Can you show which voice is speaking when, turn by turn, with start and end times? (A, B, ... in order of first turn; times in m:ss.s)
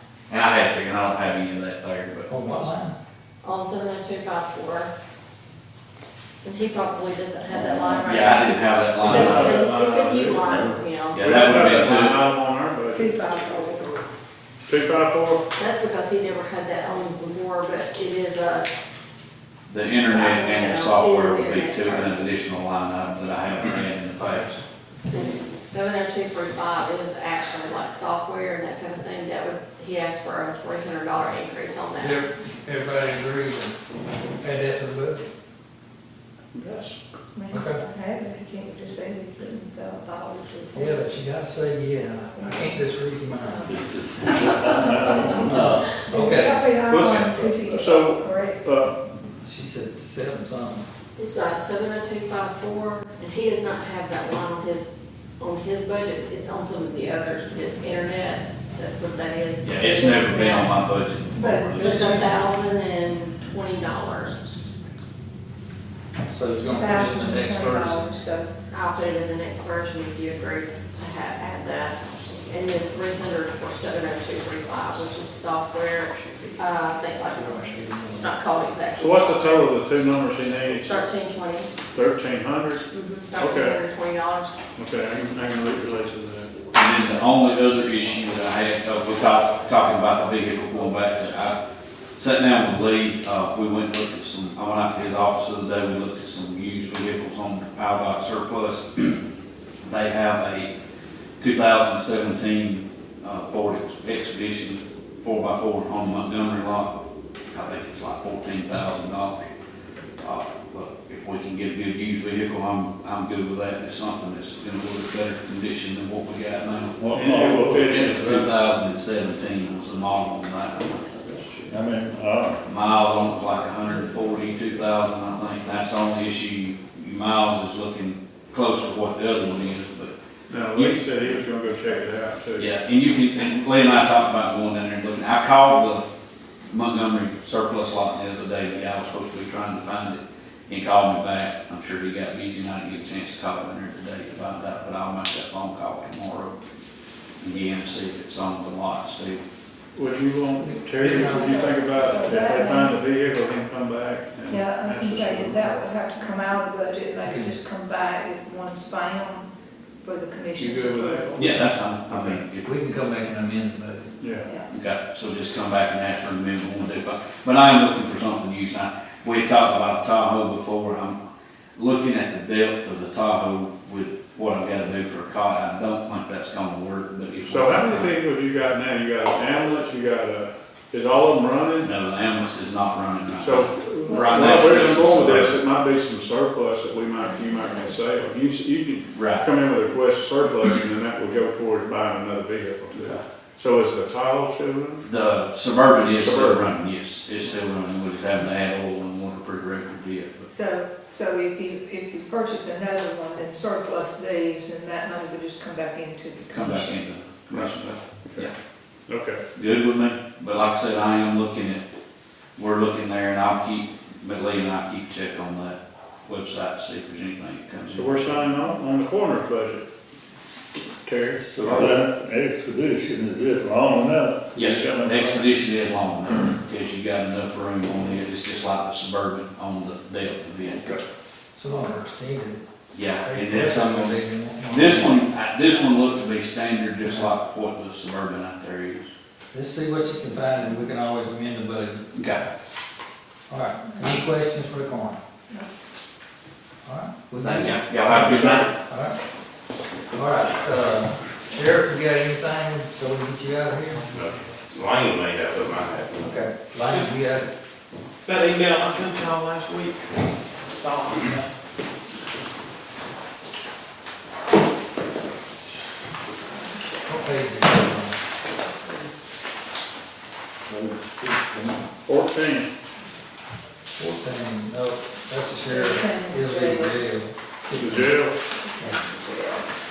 0:00.3-0:02.3 A
0:02.3-0:03.0 B
0:03.4-0:04.9 C
0:06.4-0:11.6 C
0:08.0-0:09.7 A
0:09.1-0:10.4 D
0:11.1-0:12.2 A
0:11.2-0:13.1 D
0:12.9-0:14.0 E
0:14.7-0:15.4 D
0:15.6-0:18.7 C
0:19.7-0:24.6 A
0:19.9-0:22.4 C
0:25.1-0:32.2 C
0:32.0-0:33.8 B
0:34.4-0:35.3 B
0:36.6-0:37.0 D
0:37.3-0:41.1 E
0:37.5-0:37.8 B
0:40.7-0:43.7 B
0:42.4-0:42.8 E
0:43.5-0:48.8 E
0:44.6-0:45.5 F
0:45.3-0:46.7 B
0:46.8-0:48.9 D
0:49.4-0:50.9 B
0:51.2-1:00.8 C
0:59.6-1:02.3 A
1:01.3-1:02.5 E
1:01.8-1:04.5 C
1:06.3-1:08.0 B
1:06.6-1:09.1 E
1:08.7-1:19.5 C
1:17.3-1:18.4 B
1:19.0-1:21.0 D
1:20.8-1:21.7 C
1:21.9-1:22.9 D
1:22.9-1:24.6 C
1:23.4-1:23.8 D
1:24.8-1:26.5 D
1:26.7-1:31.6 A
1:32.2-1:39.2 A
1:39.8-1:40.7 A
1:41.4-1:46.9 A
1:47.5-1:49.5 A
1:50.2-1:57.0 A
1:57.0-1:58.0 F
1:57.1-1:58.1 D
1:57.7-2:01.7 A
2:01.7-2:02.6 F
2:02.6-2:10.1 A
2:10.5-2:12.7 D
2:10.7-2:11.0 A
2:12.6-2:16.0 A
2:16.7-2:26.6 A
2:27.4-2:29.4 A
2:30.0-2:35.7 D
2:30.6-2:31.8 B
2:31.3-2:33.0 E
2:34.5-2:39.5 E
2:37.2-2:37.6 B
2:40.0-2:41.4 E
2:40.6-2:41.5 D
2:41.4-2:42.7 A
2:42.1-2:42.4 D
2:42.6-2:44.2 B
2:44.2-2:44.5 D
2:44.4-2:44.7 E
2:44.7-2:51.2 A
2:51.8-2:58.2 A
2:57.5-3:01.9 D
3:01.8-3:05.6 A
3:03.4-3:15.0 D
3:04.0-3:04.4 E
3:07.2-3:08.0 E
3:09.1-3:09.5 A
3:12.9-3:13.2 A
3:15.0-3:20.5 A
3:16.1-3:16.7 D
3:20.5-3:27.0 E
3:26.5-3:28.5 A
3:27.5-3:28.5 D
3:29.1-3:29.4 D
3:29.6-3:31.8 A
3:32.6-3:38.2 A
3:37.9-3:39.8 D
3:41.0-3:41.4 D
3:41.4-3:41.9 B
3:41.6-3:41.9 A
3:41.6-3:45.5 F
3:44.5-3:51.0 A
3:51.5-3:52.6 B
3:52.9-3:59.1 A
3:53.2-3:55.2 B
3:57.0-3:57.3 B
3:59.5-4:02.1 B
4:02.1-4:02.5 A
4:03.5-4:05.2 B
4:03.9-4:04.3 E
4:06.8-4:09.2 B
4:07.4-4:08.7 A
4:10.1-4:14.1 B
4:14.1-4:16.3 G
4:16.2-4:17.5 B
4:18.2-4:20.1 H
4:20.8-4:21.2 H
4:21.2-4:21.4 B
4:27.0-4:28.2 B
4:30.7-4:31.6 F
4:32.1-4:32.7 D
4:34.0-4:38.2 B
4:35.7-4:37.1 E
4:37.8-4:38.4 D
4:38.5-4:39.7 E
4:38.8-4:39.0 B